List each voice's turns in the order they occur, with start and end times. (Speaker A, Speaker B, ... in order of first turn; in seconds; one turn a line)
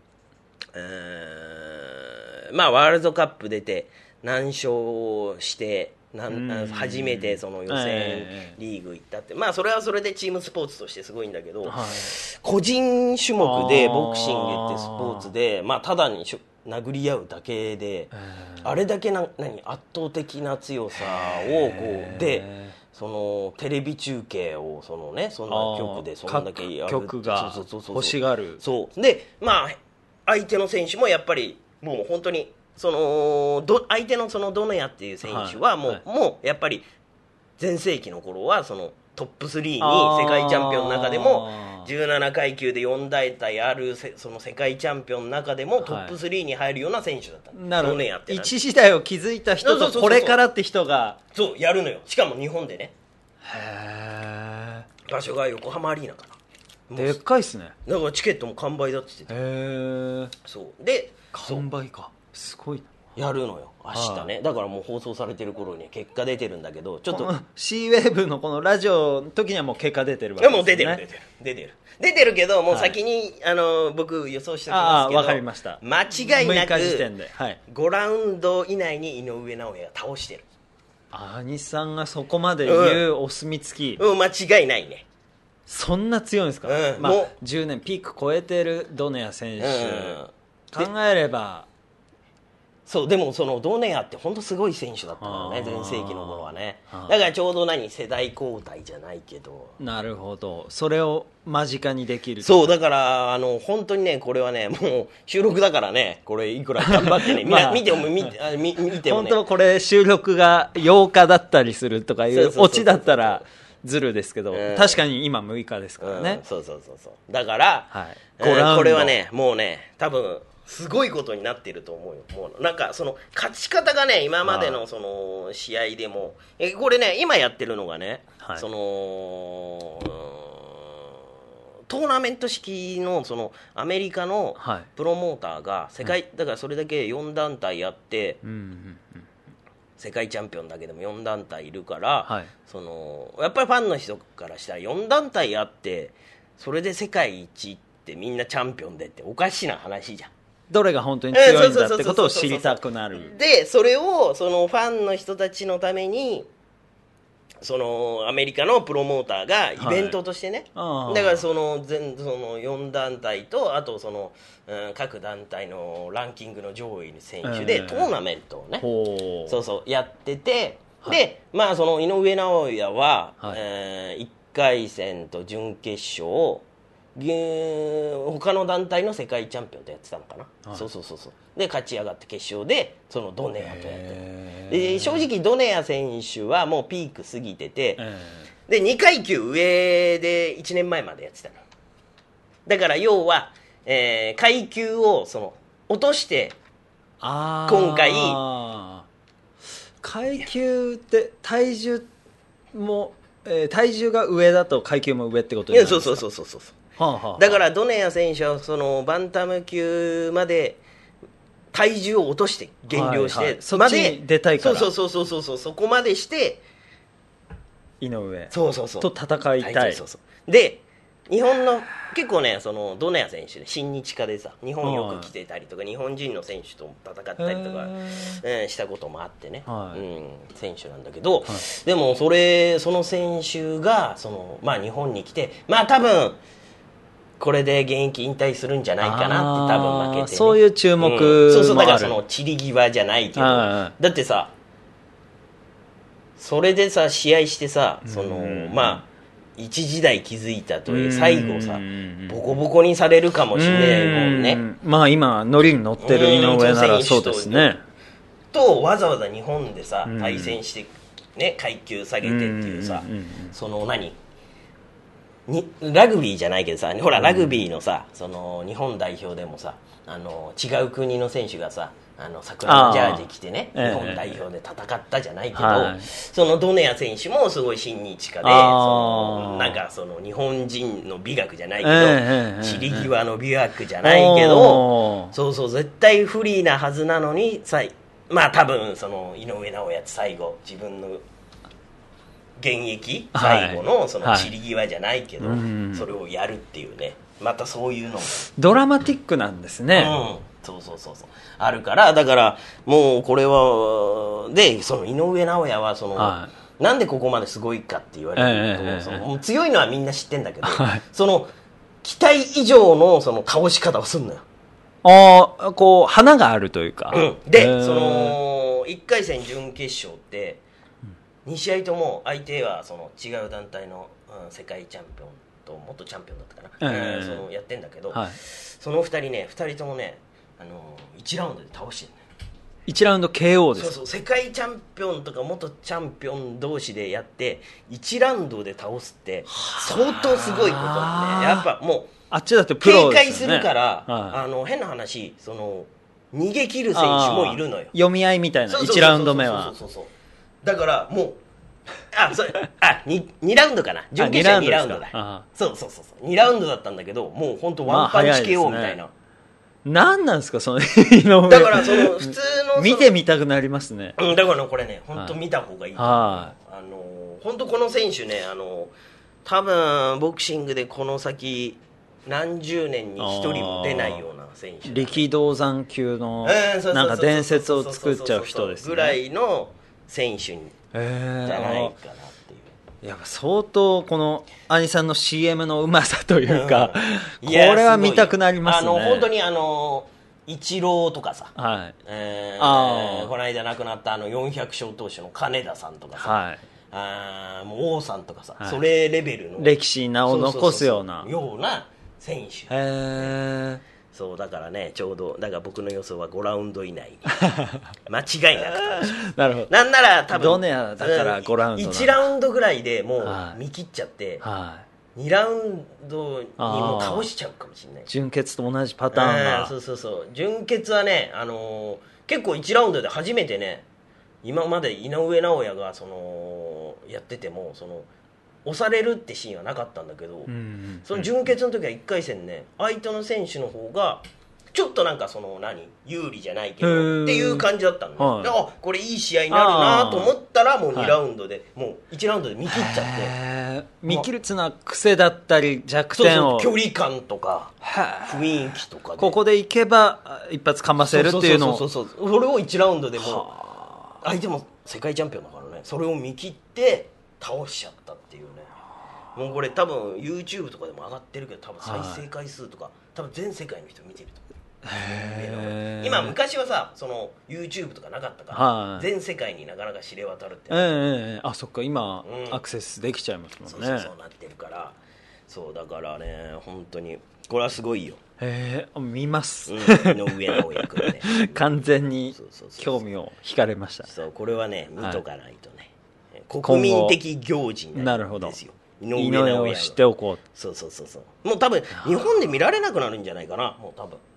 Speaker A: 0.7-36.9
Speaker B: 6.3-8.6
Speaker B: 11.6-12.1
Speaker B: 13.4-15.3
Speaker B: 18.1-18.7
Speaker B: 20.9-22.7
Speaker B: 25.5-28.6
Speaker B: 35.2-36.0
Speaker A: 37.6-48.5
Speaker B: 39.8-41.9
Speaker B: 45.8-46.1
Speaker B: 47.5-51.2
Speaker A: 49.6-50.4
Speaker A: 51.3-52.9
Speaker B: 53.4-54.9
Speaker A: 55.0-56.4
Speaker A: 56.9-57.2
Speaker B: 57.0-57.7
Speaker A: 57.9-59.4
Speaker B: 59.3-60.3
Speaker A: 60.4-61.7
Speaker B: 61.3-62.9
Speaker A: 63.1-67.3
Speaker B: 63.9-64.3
Speaker B: 67.1-71.0
Speaker A: 70.4-77.1
Speaker B: 72.7-73.0
Speaker B: 74.7-77.6
Speaker A: 77.7-80.5
Speaker B: 81.1-84.0
Speaker A: 82.6-83.0
Speaker A: 84.0-85.0
Speaker B: 85.7-90.2
Speaker A: 86.6-87.3
Speaker A: 89.6-90.9
Speaker B: 90.7-91.7
Speaker A: 92.9-99.8
Speaker B: 95.2-97.1
Speaker B: 99.8-102.8
Speaker A: 102.4-109.4
Speaker B: 106.8-108.3
Speaker B: 109.0-116.4
Speaker A: 112.3-113.5
Speaker A: 114.5-115.0
Speaker A: 116.0-131.2
Speaker B: 117.9-119.1
Speaker B: 124.4-124.8
Speaker A: 131.9-138.4
Speaker B: 134.6-134.9
Speaker B: 138.4-139.3
Speaker A: 140.0-150.3
Speaker B: 142.2-142.5
Speaker B: 150.7-153.3
Speaker A: 151.3-156.5
Speaker A: 157.6-168.9
Speaker B: 159.8-160.2
Speaker B: 160.7-161.4
Speaker B: 167.4-168.1
Speaker B: 168.8-169.6
Speaker A: 169.4-188.0
Speaker B: 183.6-185.3
Speaker B: 188.0-188.5
Speaker A: 188.7-191.6
Speaker A: 192.7-196.6
Speaker B: 197.2-199.1
Speaker A: 197.7-198.4
Speaker B: 200.0-202.1
Speaker B: 202.7-206.2
Speaker A: 205.7-206.8
Speaker B: 207.0-207.6
Speaker A: 207.4-210.8
Speaker A: 211.7-216.6
Speaker B: 212.9-214.9
Speaker B: 218.0-220.0
Speaker A: 218.5-236.4
Speaker B: 224.8-225.3
Speaker B: 227.4-228.4
Speaker B: 229.7-230.0
Speaker A: 237.4-244.5
Speaker B: 239.0-242.2
Speaker B: 243.4-243.9
Speaker A: 246.4-249.1
Speaker B: 248.0-249.0
Speaker A: 249.6-254.6
Speaker B: 250.9-252.4
Speaker B: 253.5-257.8
Speaker A: 256.0-257.7
Speaker A: 258.5-264.2
Speaker B: 260.0-260.6
Speaker B: 262.2-263.5
Speaker A: 265.5-291.2
Speaker B: 267.2-267.6
Speaker B: 272.6-274.4
Speaker B: 275.5-276.1
Speaker B: 278.4-279.8
Speaker B: 281.8-283.1
Speaker B: 284.0-285.3
Speaker A: 292.6-298.5
Speaker B: 293.3-294.5
Speaker B: 295.4-296.1
Speaker B: 298.5-300.2
Speaker A: 299.9-311.5
Speaker B: 306.1-306.5
Speaker B: 308.4-309.2
Speaker B: 310.6-311.0
Speaker A: 312.0-314.4
Speaker B: 315.0-318.4
Speaker A: 317.1-320.6
Speaker A: 321.4-332.2
Speaker B: 326.8-327.4
Speaker B: 328.1-328.4
Speaker B: 332.9-333.9
Speaker A: 333.8-342.1
Speaker B: 339.5-341.7
Speaker B: 342.3-344.4
Speaker A: 342.8-347.9
Speaker B: 346.9-349.7
Speaker A: 348.7-350.1
Speaker A: 350.6-351.4
Speaker A: 352.1-359.1
Speaker B: 354.2-355.4
Speaker B: 357.9-359.0
Speaker B: 359.8-364.2
Speaker A: 361.5-363.1
Speaker A: 364.2-368.9
Speaker B: 366.0-366.5
Speaker A: 369.4-375.3
Speaker B: 373.2-374.3
Speaker B: 374.8-379.2
Speaker A: 376.4-380.8
Speaker B: 380.9-381.9
Speaker A: 381.4-382.7
Speaker B: 383.0-389.3
Speaker A: 386.5-396.4
Speaker B: 391.6-391.9
Speaker B: 392.6-393.3
Speaker B: 396.2-396.6
Speaker A: 396.9-399.7
Speaker B: 399.6-401.3
Speaker A: 400.3-403.4
Speaker B: 402.7-403.8
Speaker A: 404.1-407.4
Speaker B: 407.4-407.9
Speaker A: 408.1-414.4
Speaker B: 408.7-409.7
Speaker B: 410.3-412.2
Speaker B: 413.2-413.6
Speaker B: 414.4-414.8
Speaker A: 415.1-418.1
Speaker B: 416.6-417.3
Speaker B: 418.1-419.7
Speaker A: 419.1-423.9
Speaker A: 424.4-428.1
Speaker A: 428.6-430.5
Speaker B: 430.5-431.3
Speaker A: 431.1-443.4
Speaker B: 436.8-438.6
Speaker B: 439.5-440.3
Speaker B: 442.7-446.7
Speaker A: 446.1-449.4
Speaker B: 447.8-448.6
Speaker B: 449.2-451.9
Speaker A: 451.0-453.6
Speaker B: 453.2-454.2
Speaker A: 454.2-458.7
Speaker A: 459.3-471.0
Speaker B: 461.8-462.2
Speaker B: 464.8-466.4
Speaker B: 468.5-469.1
Speaker B: 470.7-474.1
Speaker A: 472.2-472.6
Speaker A: 473.7-478.2
Speaker B: 478.4-484.1
Speaker A: 479.7-481.7
Speaker A: 482.3-483.0
Speaker A: 484.1-494.2
Speaker B: 486.6-487.2
Speaker B: 487.9-488.6
Speaker B: 489.1-490.4
Speaker B: 492.0-492.5